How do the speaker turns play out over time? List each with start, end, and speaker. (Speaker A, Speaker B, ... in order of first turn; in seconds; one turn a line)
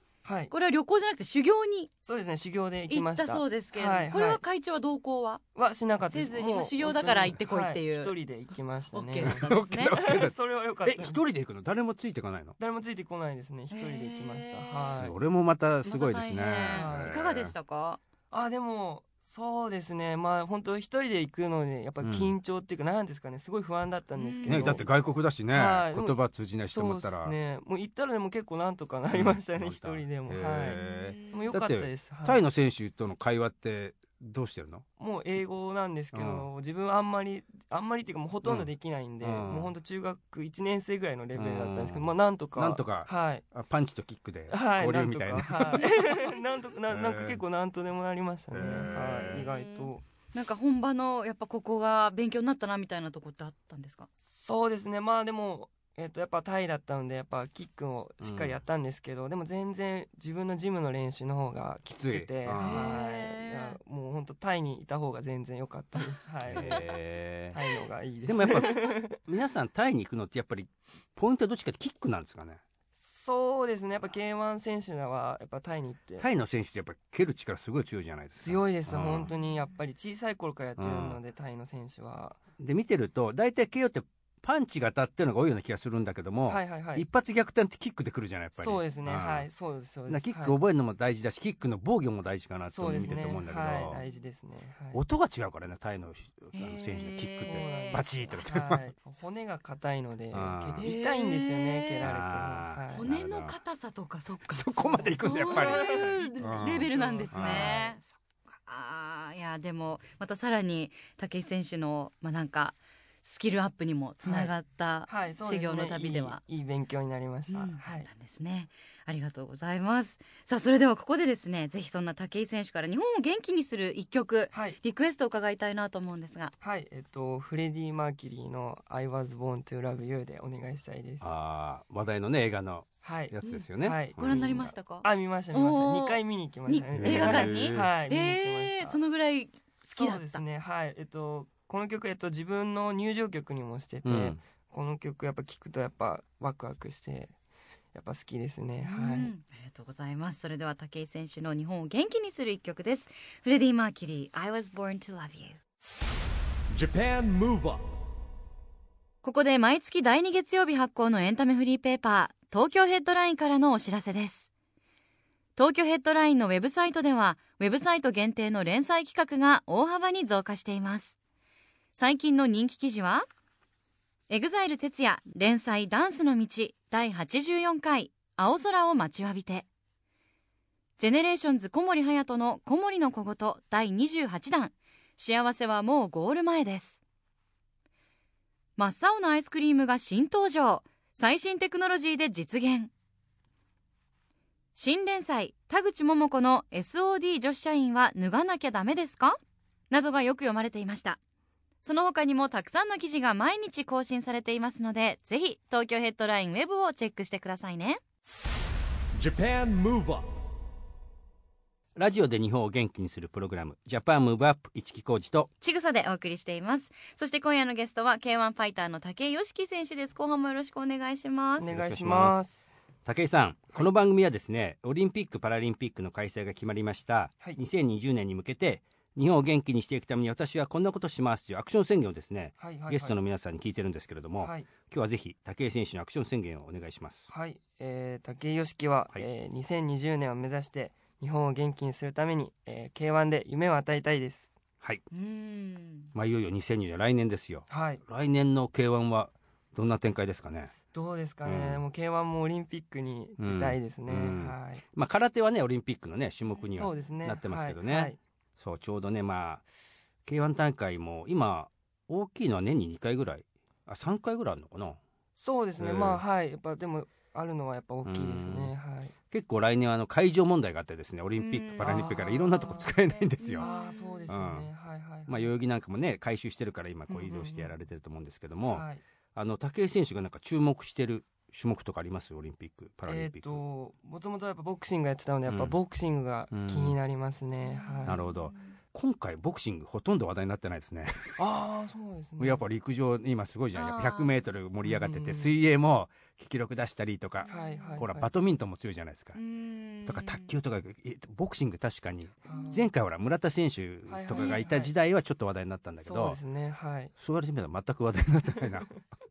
Speaker A: 0.2-0.5
Speaker B: 0.5-1.9
Speaker A: 2.0-4.4
Speaker B: 2.9-5.4
Speaker A: 5.5-11.2
Speaker B: 6.1-8.1
Speaker B: 8.9-10.0
Speaker C: 9.2-12.6
Speaker A: 12.6-15.2
Speaker B: 13.7-14.9
Speaker C: 14.9-17.5
Speaker B: 15.8-18.0
Speaker A: 16.6-17.2
Speaker A: 18.3-24.9
Speaker C: 22.0-22.4
Speaker B: 24.2-24.8
Speaker C: 24.5-27.4
Speaker A: 25.5-30.8
Speaker C: 29.1-34.9
Speaker B: 30.7-31.5
Speaker A: 31.3-32.4
Speaker A: 35.0-43.5
Speaker C: 36.1-36.5
Speaker C: 39.2-39.7
Speaker C: 41.3-45.9
Speaker A: 44.5-50.0
Speaker B: 45.8-46.4
Speaker C: 46.9-47.4
Speaker C: 48.5-49.5
Speaker B: 48.6-54.1
Speaker A: 54.2-66.9
Speaker C: 58.2-58.6
Speaker C: 62.0-63.0
Speaker B: 62.5-63.8
Speaker C: 66.5-67.6
Speaker A: 67.5-69.2
Speaker C: 68.3-72.6
Speaker A: 73.0-76.3
Speaker C: 76.2-79.3
Speaker A: 78.4-82.4
Speaker C: 80.8-81.2
Speaker C: 82.6-89.5
Speaker A: 86.5-87.1
Speaker A: 88.6-90.6
Speaker C: 90.1-94.0
Speaker A: 92.6-95.0
Speaker C: 94.9-98.8
Speaker B: 96.5-98.6
Speaker A: 97.4-103.1
Speaker C: 100.3-100.9
Speaker B: 100.8-102.1
Speaker C: 102.0-103.6
Speaker B: 102.9-116.4
Speaker C: 104.5-107.9
Speaker A: 105.0-108.0
Speaker A: 114.2-114.5
Speaker A: 115.1-118.1
Speaker B: 117.5-126.5
Speaker A: 124.5-124.8
Speaker A: 126.6-131.3
Speaker C: 131.2-134.4
Speaker A: 133.0-139.0
Speaker B: 134.2-140.4
Speaker C: 136.9-137.9
Speaker A: 139.9-147.3
Speaker C: 144.1-144.4
Speaker A: 147.9-149.3
Speaker B: 148.8-155.6
Speaker D: 156.7-157.8
Speaker B: 159.2-164.5
Speaker B: 165.6-171.2
Speaker B: 172.0-173.3
Speaker B: 174.3-179.7
Speaker B: 181.0-187.0
Speaker B: 188.8-192.9
Speaker B: 194.8-199.4
Speaker B: 199.9-201.2
Speaker B: 201.8-208.0
Speaker D: 209.1-210.3
Speaker C: 212.0-215.5
Speaker B: 215.6-221.7
Speaker A: 221.6-222.7
Speaker C: 221.6-222.4
Speaker C: 223.1-237.3
Speaker A: 232.6-233.2
Speaker A: 234.4-234.7
Speaker A: 237.3-244.6
Speaker B: 245.1-246.1
Speaker C: 246.2-250.7
Speaker A: 247.7-248.0
Speaker A: 250.9-254.8
Speaker C: 251.4-251.8
Speaker C: 253.4-259.6
Speaker A: 256.7-258.2
Speaker C: 260.2-265.0
Speaker A: 265.4-269.1
Speaker C: 265.8-266.2
Speaker C: 268.1-268.7
Speaker C: 269.3-273.7
Speaker B: 271.4-272.5
Speaker A: 271.8-272.9
Speaker B: 273.4-274.4
Speaker A: 273.6-275.5
Speaker C: 274.3-274.7
Speaker C: 275.3-283.6
Speaker A: 277.1-277.7
Speaker A: 278.7-279.0
Speaker A: 283.1-288.2
Speaker C: 285.5-285.8
Speaker C: 286.5-287.0
Speaker B: 287.6-288.8
Speaker C: 288.1-291.4
Speaker A: 291.4-292.6
Speaker C: 292.4-299.4
Speaker B: 293.7-294.4
Speaker A: 294.8-295.5
Speaker B: 297.4-298.1
Speaker A: 297.5-298.3
Speaker B: 299.4-300.5
Speaker C: 300.1-306.4
Speaker A: 302.4-302.9
Speaker B: 302.5-302.8
Speaker A: 304.1-304.9
Speaker B: 304.3-304.6
Speaker A: 306.0-307.1
Speaker C: 307.2-308.9